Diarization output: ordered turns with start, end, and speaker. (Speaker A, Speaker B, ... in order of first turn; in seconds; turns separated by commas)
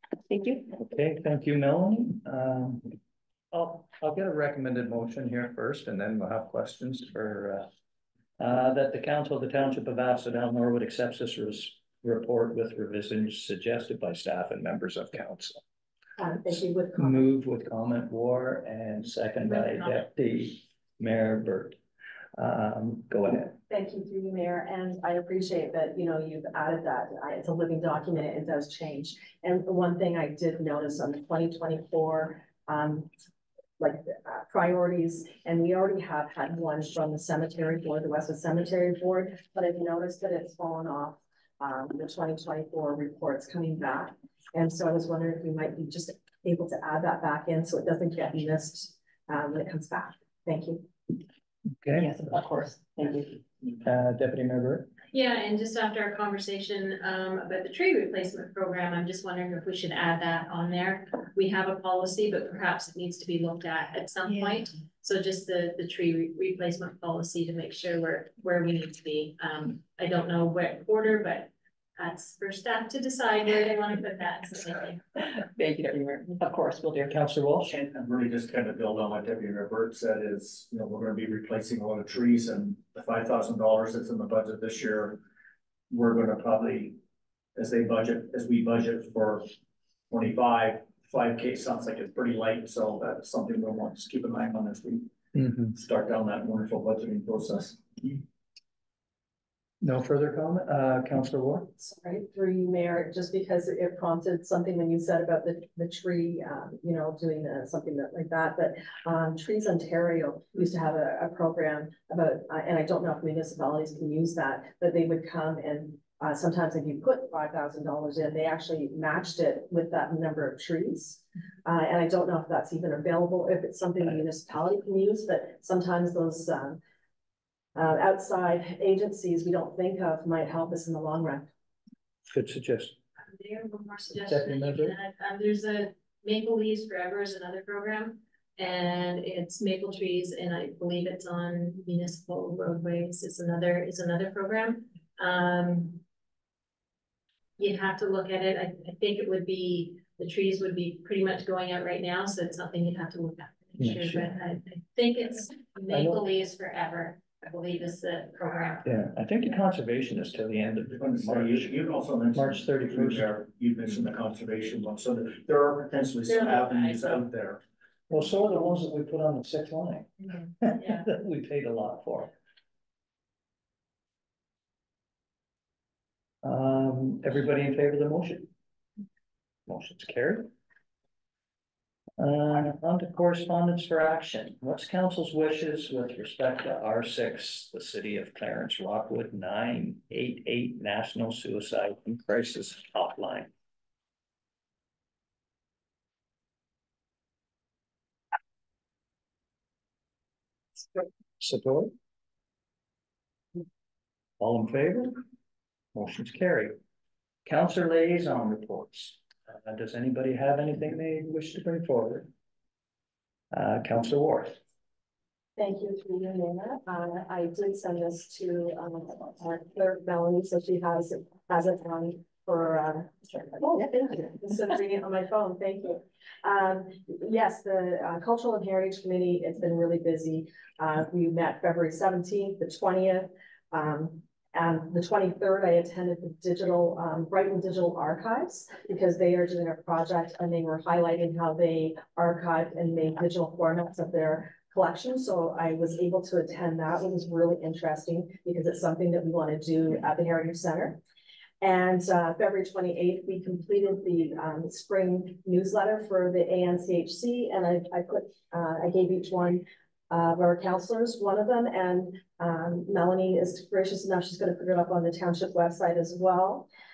Speaker A: 0.3-0.7, Speaker B: 0.7-3.0, Speaker B: 3.5-7.7, Speaker B: 8.4-15.6, Speaker C: 16.2-17.2, Speaker B: 17.0-21.8, Speaker D: 19.5-20.0, Speaker B: 22.4-23.6, Speaker C: 23.7-33.1, Speaker C: 33.8-50.9, Speaker B: 51.8-52.1, Speaker A: 51.9-53.4, Speaker B: 53.8-54.9, Speaker D: 55.1-75.0, Speaker A: 75.2-77.2, Speaker B: 77.1-77.8, Speaker E: 77.7-85.2, Speaker E: 85.9-87.0, Speaker E: 87.5-89.5, Speaker E: 90.1-95.1, Speaker B: 95.3-95.7, Speaker E: 95.6-98.2, Speaker B: 99.8-101.7, Speaker C: 101.8-126.8, Speaker C: 127.7-131.5, Speaker B: 132.3-132.9, Speaker D: 133.2-146.0, Speaker B: 134.3-135.0, Speaker D: 147.6-158.8, Speaker B: 153.8-154.3, Speaker B: 155.9-156.2, Speaker B: 158.8-161.7, Speaker E: 160.9-167.6, Speaker B: 162.3-163.3, Speaker D: 166.3-167.3, Speaker B: 168.1-172.3, Speaker D: 170.8-171.1, Speaker B: 176.4-178.5, Speaker B: 179.7-180.5, Speaker B: 182.2-193.5, Speaker B: 201.4-201.9, Speaker B: 204.4-205.2, Speaker B: 205.9-206.8, Speaker B: 207.4-212.3, Speaker B: 213.5-214.6, Speaker C: 215.6-251.0, Speaker A: 223.6-224.1, Speaker C: 251.6-266.7